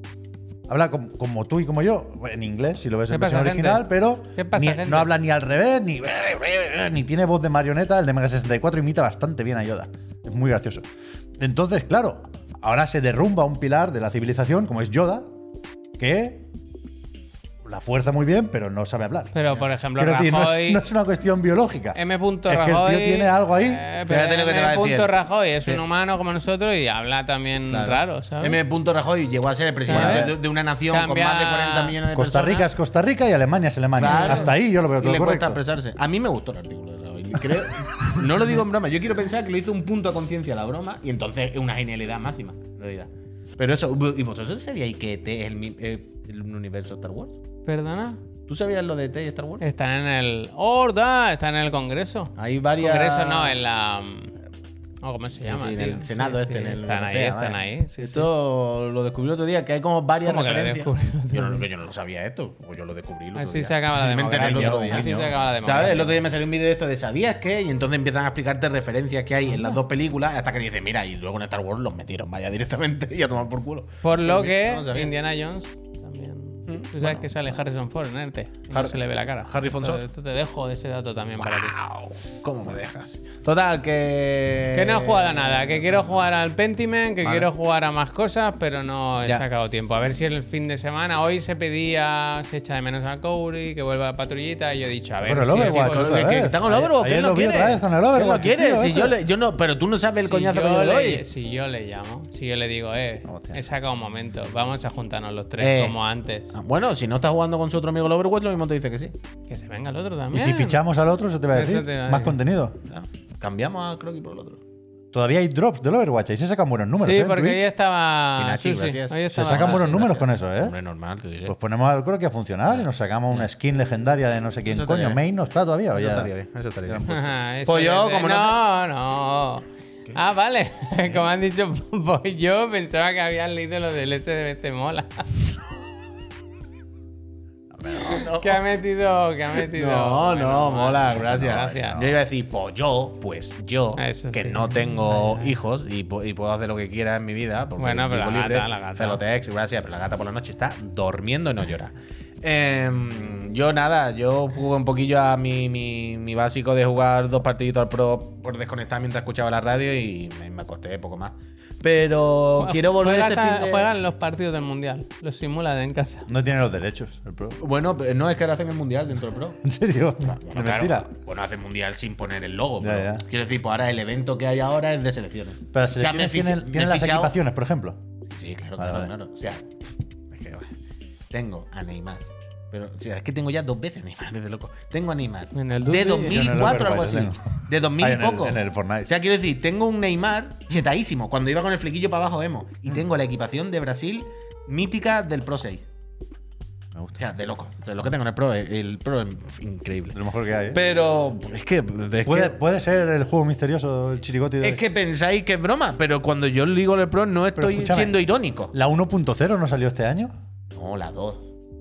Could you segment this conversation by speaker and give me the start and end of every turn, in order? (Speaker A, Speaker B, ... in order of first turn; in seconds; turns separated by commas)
Speaker A: 0.7-10.8, Speaker B: 3.1-5.1, Speaker A: 11.4-15.3, Speaker A: 16.0-16.4, Speaker A: 17.6-19.3, Speaker B: 19.3-20.8, Speaker A: 20.0-23.8, Speaker B: 21.9-28.6, Speaker C: 24.1-25.1, Speaker C: 27.7-32.7, Speaker B: 29.8-30.3, Speaker A: 29.9-30.3, Speaker B: 30.9-31.9, Speaker A: 32.1-35.6, Speaker C: 34.0-47.4, Speaker B: 34.0-34.5, Speaker B: 47.6-48.2, Speaker C: 48.5-49.6, Speaker B: 49.6-54.3, Speaker C: 52.4-53.6, Speaker B: 55.0-58.3, Speaker C: 55.4-75.1, Speaker B: 60.2-61.6, Speaker B: 63.3-66.1, Speaker A: 64.3-65.3, Speaker B: 69.5-69.8, Speaker B: 74.0-81.7, Speaker C: 76.7-77.3, Speaker C: 78.7-80.0, Speaker C: 81.4-86.2, Speaker B: 84.7-96.2, Speaker C: 87.2-87.5, Speaker A: 95.2-99.2, Speaker C: 95.5-101.2, Speaker B: 100.2-106.5, Speaker A: 103.2-103.6, Speaker C: 105.6-106.0, Speaker C: 106.5-109.1, Speaker B: 109.5-110.8, Speaker A: 110.3-112.8, Speaker B: 111.5-112.3, Speaker C: 112.9-114.6, Speaker A: 115.1-117.7, Speaker B: 117.0-120.0, Speaker C: 118.3-121.5, Speaker A: 119.3-120.7, Speaker A: 121.5-126.3, Speaker C: 122.7-123.5, Speaker C: 124.7-125.2, Speaker C: 125.9-128.6, Speaker B: 127.1-135.3, Speaker A: 137.7-138.0, Speaker B: 137.9-142.0, Speaker C: 137.9-138.6, Speaker C: 139.6-163.9, Speaker A: 141.1-142.2, Speaker B: 143.9-145.5, Speaker B: 147.8-149.2, Speaker B: 162.6-166.3, Speaker A: 166.3-167.6, Speaker C: 167.6-169.6, Speaker A: 169.6-171.1, Speaker C: 170.2-177.3, Speaker A: 172.8-173.2, Speaker A: 175.7-178.0, Speaker C: 178.3-180.7, Speaker A: 178.8-179.1, Speaker C: 181.3-195.8, Speaker B: 185.5-186.6, Speaker A: 186.3-189.1, Speaker A: 196.9-197.2, Speaker C: 197.2-200.2, Speaker A: 200.1-200.8, Speaker C: 200.7-202.6, Speaker A: 202.2-204.8, Speaker C: 204.6-208.7, Speaker A: 207.6-208.2, Speaker A: 208.7-210.3, Speaker C: 210.7-211.4